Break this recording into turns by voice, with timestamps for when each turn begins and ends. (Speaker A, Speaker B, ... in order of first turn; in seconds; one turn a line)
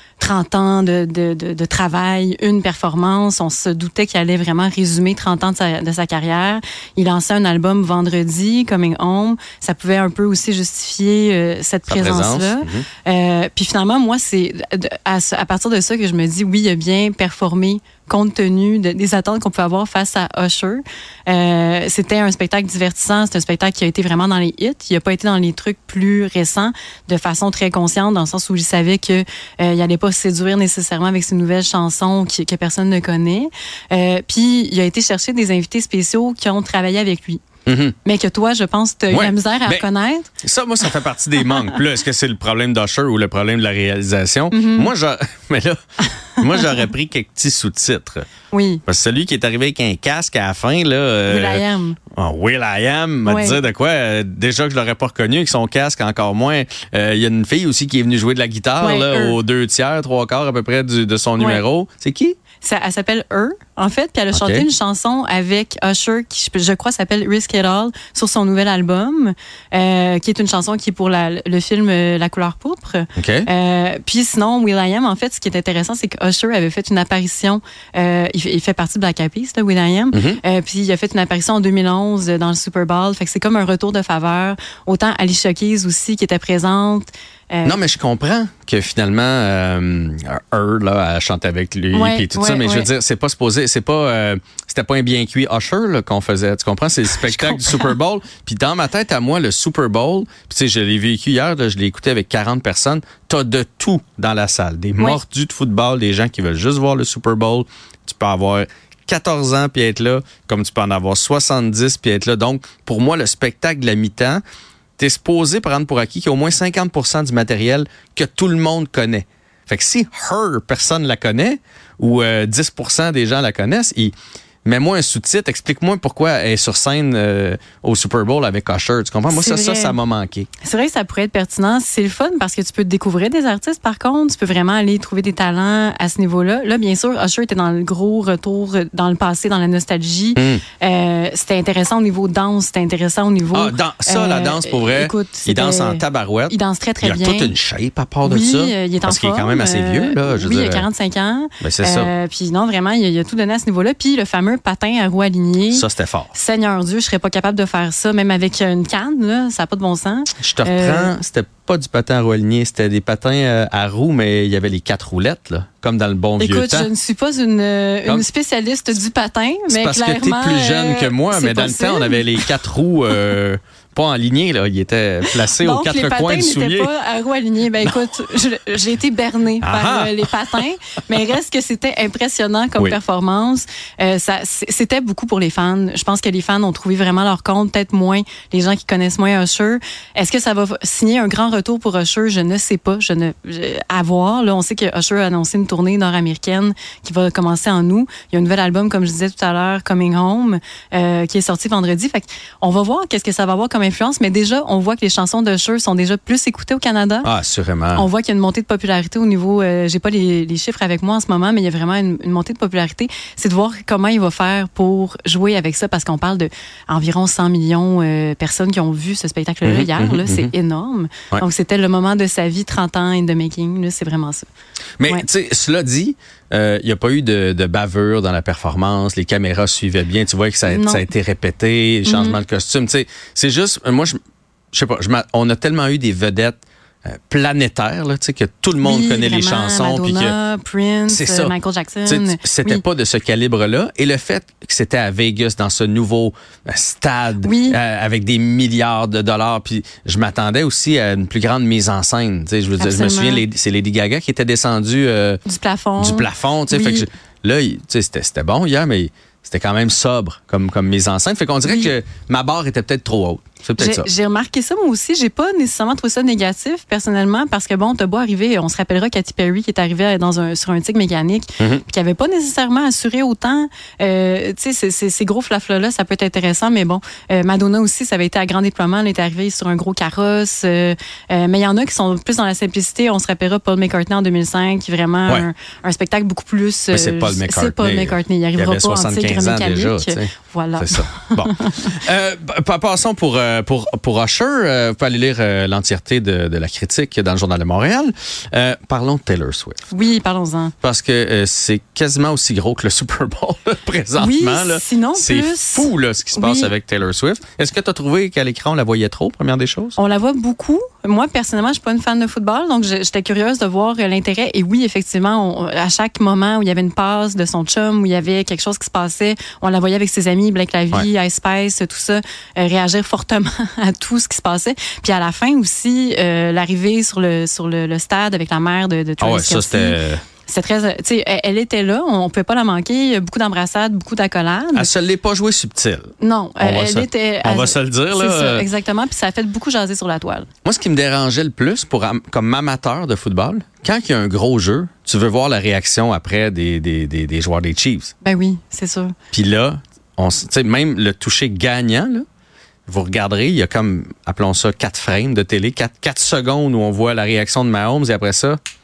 Speaker A: 0.2-37.4
Speaker B: 11.9-12.9
Speaker B: 37.6-37.9
Speaker A: 38.0-40.3
Speaker B: 39.1-39.9
Speaker B: 40.4-45.8
Speaker A: 44.5-44.9
Speaker B: 46.4-48.3
Speaker A: 48.5-48.8
Speaker B: 48.9-62.4
Speaker A: 51.3-52.0
Speaker A: 53.2-53.6
Speaker A: 58.8-59.4
Speaker A: 61.4-61.6
Speaker A: 62.6-87.8
Speaker B: 64.3-64.7
Speaker B: 73.2-73.5
Speaker B: 80.1-80.4
Speaker B: 87.6-114.4
Speaker A: 91.9-92.9
Speaker A: 97.3-97.9
Speaker B: 115.0-124.1
Speaker B: 124.6-130.5
Speaker A: 129.3-129.9
Speaker A: 130.6-147.5
Speaker B: 140.3-140.6
Speaker B: 143.5-150.8
Speaker A: 148.2-161.1
Speaker B: 151.6-152.1
Speaker B: 155.7-156.3
Speaker B: 160.4-166.9
Speaker A: 166.4-172.4
Speaker B: 169.7-176.9
Speaker A: 175.5-207.3
Speaker B: 179.6-180.6
Speaker B: 207.2-208.1
Speaker A: 207.9-224.4
Speaker B: 219.6-220.5
Speaker B: 225.0-234.2
Speaker A: 230.7-231.0
Speaker A: 232.0-232.4
Speaker B: 234.7-240.3
Speaker A: 238.8-242.8
Speaker B: 241.1-241.5
Speaker B: 242.1-255.4
Speaker A: 247.4-247.8
Speaker A: 252.8-253.4
Speaker A: 255.4-257.1
Speaker B: 256.0-264.1
Speaker A: 261.6-261.9
Speaker A: 263.8-291.9
Speaker B: 286.9-299.9
Speaker A: 299.9-300.7
Speaker B: 300.8-310.0
Speaker A: 304.1-306.7
Speaker A: 310.0-334.9
Speaker B: 329.2-330.2
Speaker B: 334.7-338.6
Speaker A: 336.2-340.5
Speaker B: 340.6-348.1
Speaker A: 348.2-349.1
Speaker B: 349.3-352.2
Speaker B: 352.9-358.6